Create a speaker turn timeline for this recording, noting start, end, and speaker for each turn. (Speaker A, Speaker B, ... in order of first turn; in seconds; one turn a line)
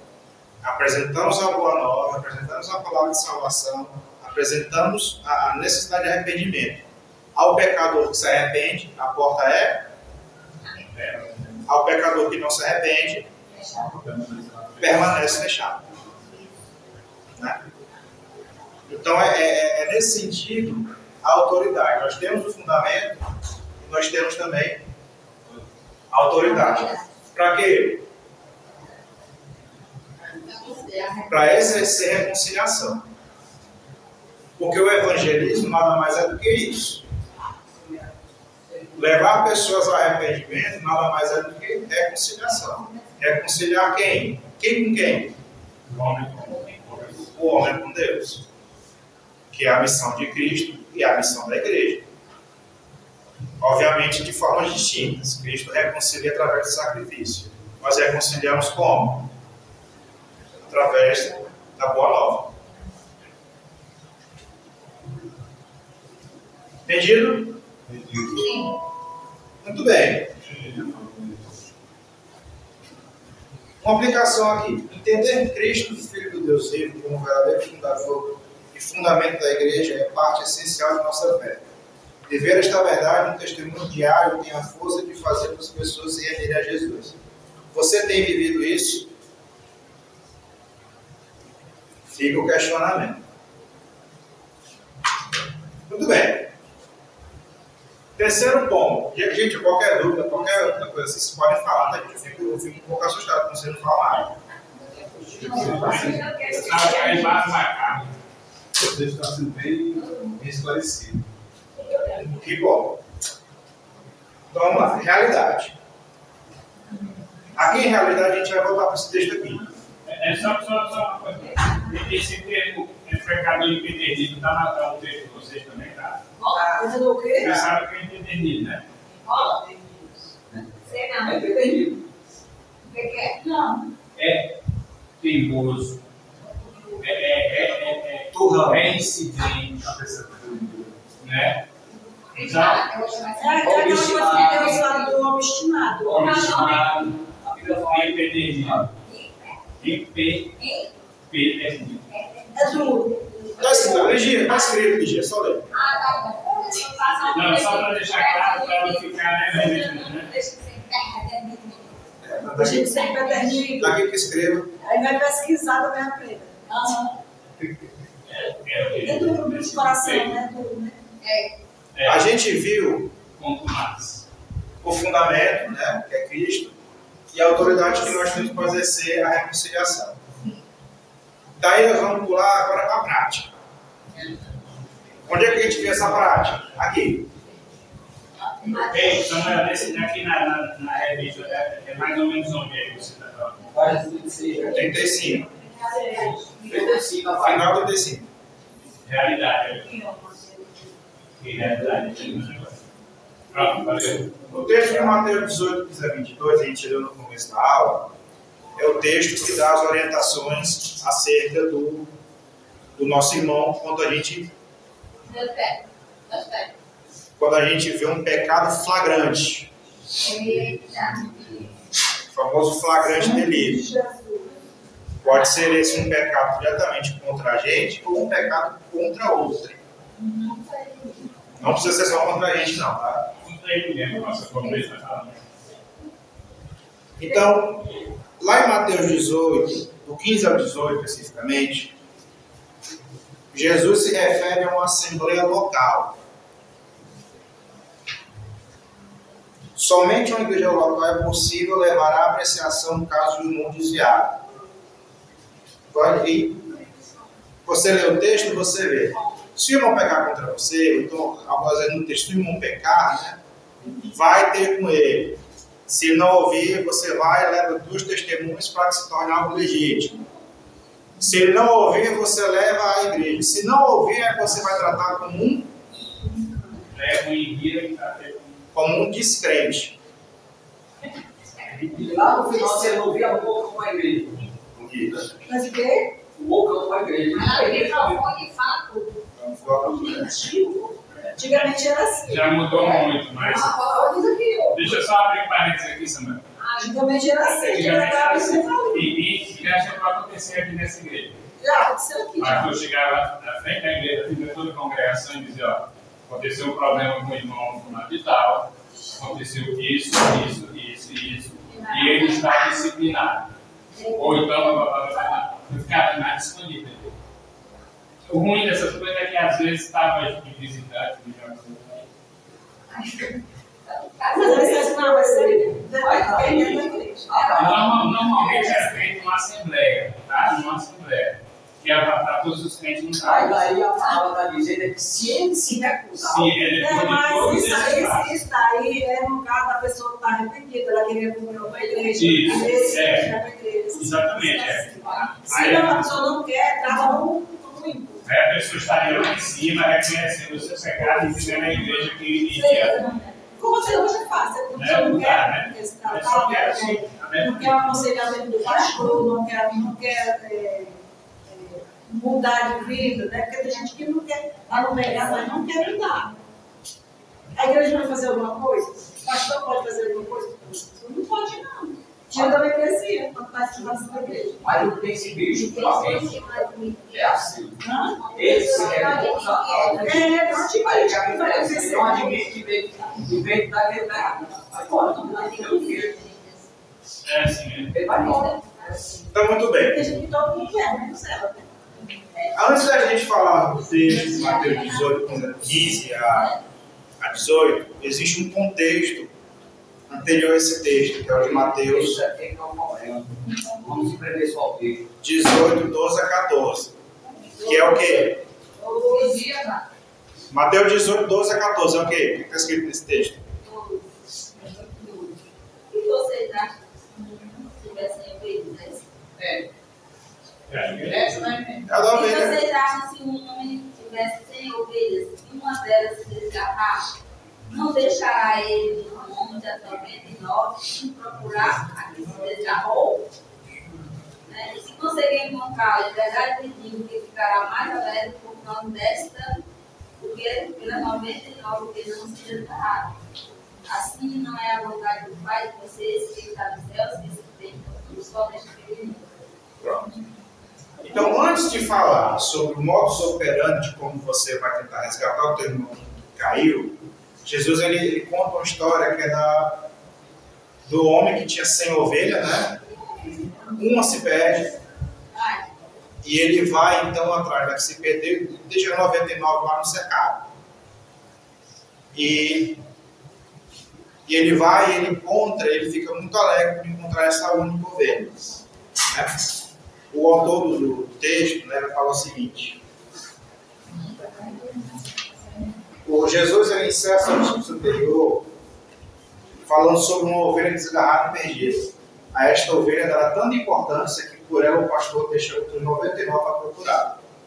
Speaker A: 0.6-6.8
Speaker A: 7.3-9.9
Speaker B: 11.0-11.2
Speaker A: 11.7-13.3
Speaker C: 13.6-13.8
Speaker D: 13.7-15.0
Speaker A: 14.8-15.9
Speaker A: 18.9-23.2
Speaker A: 23.8-24.8
Speaker A: 26.1-28.0
Speaker C: 26.4-27.0
Speaker C: 30.4-31.6
Speaker A: 31.2-33.1
Speaker A: 34.6-37.0
Speaker A: 38.9-45.4
Speaker B: 45.9-47.3
Speaker A: 47.3-48.4
Speaker A: 49.5-52.1
Speaker A: 53.6-59.3
Speaker A: 60.7-62.5
Speaker A: 66.8-67.6
Speaker D: 67.8-68.6
Speaker A: 69.6-70.3
Speaker D: 70.4-71.7
Speaker A: 73.8-81.6
Speaker A: 82.3-87.2
Speaker A: 87.7-89.1
Speaker A: 92.1-93.2
Speaker A: 95.9-96.5
Speaker A: 98.2-104.3
Speaker D: 105.3-106.5
Speaker C: 105.3-107.4
Speaker B: 105.6-108.2
Speaker D: 108.8-111.3
Speaker A: 112.0-113.0
Speaker A: 114.5-115.8
Speaker A: 117.5-119.7
Speaker B: 120.0-126.2
Speaker C: 126.4-126.8
Speaker E: 126.5-127.7
Speaker B: 127.4-128.8
Speaker F: 129.2-130.3
Speaker C: 129.2-129.6
Speaker C: 130.8-131.4
Speaker G: 131.2-132.0
Speaker C: 132.8-133.4
Speaker E: 133.4-133.8
Speaker B: 134.1-134.5
Speaker B: 135.2-136.0
Speaker B: 137.0-139.8
Speaker A: 138.3-138.9
Speaker D: 139.8-140.9
Speaker B: 141.2-141.6
Speaker C: 142.3-145.1
Speaker B: 142.4-142.9
Speaker E: 143.3-146.2
Speaker G: 143.6-145.0
Speaker G: 146.0-148.9
Speaker C: 146.2-146.8
Speaker B: 146.2-146.9
Speaker B: 147.8-148.9
Speaker C: 149.0-149.7
Speaker B: 149.8-150.6
Speaker C: 150.6-150.9
Speaker B: 151.3-152.1
Speaker C: 152.1-154.5
Speaker E: 152.5-154.2
Speaker A: 153.6-155.7
Speaker C: 155.7-162.0
Speaker B: 157.3-160.3
Speaker A: 162.2-163.1
Speaker E: 162.5-164.0
Speaker C: 162.8-163.7
Speaker A: 163.8-164.7
Speaker E: 164.8-167.2
Speaker B: 168.3-170.4
Speaker E: 169.0-171.0
Speaker C: 171.2-171.5
Speaker B: 171.9-172.2
Speaker A: 172.0-173.1
Speaker B: 173.4-174.2
Speaker A: 174.8-176.8
Speaker A: 177.3-180.2
Speaker E: 177.8-178.2
Speaker A: 181.6-183.5
Speaker A: 185.2-187.3
Speaker C: 188.6-189.4
Speaker B: 188.7-193.8
Speaker G: 193.7-194.9
Speaker C: 194.5-197.0
Speaker A: 194.7-195.5
Speaker G: 196.2-197.8
Speaker A: 197.4-198.3
Speaker B: 199.0-200.0
Speaker B: 201.4-202.8
Speaker B: 203.5-204.5
Speaker A: 204.4-208.1
Speaker A: 208.8-212.1
Speaker A: 212.9-214.5
Speaker C: 215.2-216.7
Speaker A: 217.4-219.7
Speaker C: 220.2-221.7
Speaker A: 222.3-223.9
Speaker E: 223.1-224.6
Speaker A: 225.2-229.8
Speaker C: 225.3-225.8
Speaker C: 230.5-231.2
Speaker A: 231.6-233.3
Speaker B: 233.4-235.5
Speaker A: 237.2-241.9
Speaker A: 243.5-246.2
Speaker A: 249.8-254.4
Speaker A: 255.9-256.7
Speaker A: 257.6-263.4
Speaker A: 264.0-270.2
Speaker A: 271.2-275.7
Speaker B: 276.9-278.6
Speaker A: 278.7-279.9
Speaker G: 281.7-284.5
Speaker A: 284.8-285.2
Speaker E: 285.4-286.1
Speaker G: 286.3-288.2
Speaker C: 287.3-289.2
Speaker A: 289.4-290.4
Speaker E: 290.0-292.6
Speaker B: 292.2-293.8
Speaker G: 292.6-295.0
Speaker B: 294.7-296.4
Speaker C: 296.6-297.0
Speaker E: 296.8-299.2
Speaker B: 297.4-301.4
Speaker E: 301.6-302.8
Speaker B: 302.4-313.5
Speaker C: 311.7-313.0
Speaker C: 313.9-314.9
Speaker B: 314.1-317.1
Speaker B: 318.3-322.1
Speaker C: 323.9-325.6
Speaker E: 324.3-327.5
Speaker G: 324.3-324.8
Speaker G: 325.9-328.5
Speaker B: 327.5-333.7
Speaker G: 333.1-336.7
Speaker E: 335.7-336.2
Speaker B: 336.2-338.4
Speaker E: 336.7-348.3
Speaker C: 341.8-343.0
Speaker B: 342.1-343.3
Speaker B: 343.9-346.1
Speaker C: 344.4-345.5
Speaker B: 348.2-353.0
Speaker C: 349.1-349.3
Speaker C: 351.7-354.3
Speaker E: 353.6-366.4
Speaker B: 354.7-358.2
Speaker E: 367.5-374.6
Speaker G: 374.6-377.8
Speaker C: 375.6-377.6
Speaker E: 377.8-382.5
Speaker C: 378.2-380.5
Speaker G: 378.3-386.1
Speaker A: 379.7-380.1
Speaker C: 385.1-386.6
Speaker B: 387.2-387.9
Speaker G: 387.9-389.0
Speaker C: 388.1-389.1
Speaker A: 389.3-390.1
Speaker E: 389.8-391.7
Speaker A: 392.5-396.6
Speaker C: 394.2-395.1
Speaker A: 397.2-399.3
Speaker A: 400.1-402.2
Speaker G: 401.3-405.1
Speaker A: 405.2-407.0
Speaker A: 407.6-408.4
Speaker C: 408.8-409.6
Speaker G: 409.1-409.4
Speaker A: 410.5-413.5
Speaker C: 413.6-414.1
Speaker C: 414.6-415.3
Speaker C: 415.9-419.0
Speaker F: 419.4-419.7
Speaker B: 420.7-421.5
Speaker F: 421.0-421.9
Speaker A: 421.9-422.6
Speaker C: 422.0-427.1
Speaker C: 427.7-433.2
Speaker C: 434.4-439.6
Speaker C: 440.2-443.1
Speaker C: 443.9-449.5
Speaker A: 449.8-450.2
Speaker A: 451.0-459.9
Speaker A: 460.9-462.8
Speaker A: 463.7-464.7
Speaker C: 465.3-465.6
Speaker A: 466.2-470.5
Speaker A: 472.1-472.8
Speaker A: 474.2-479.5
Speaker A: 480.1-482.8
Speaker A: 486.0-488.5
Speaker A: 489.6-497.2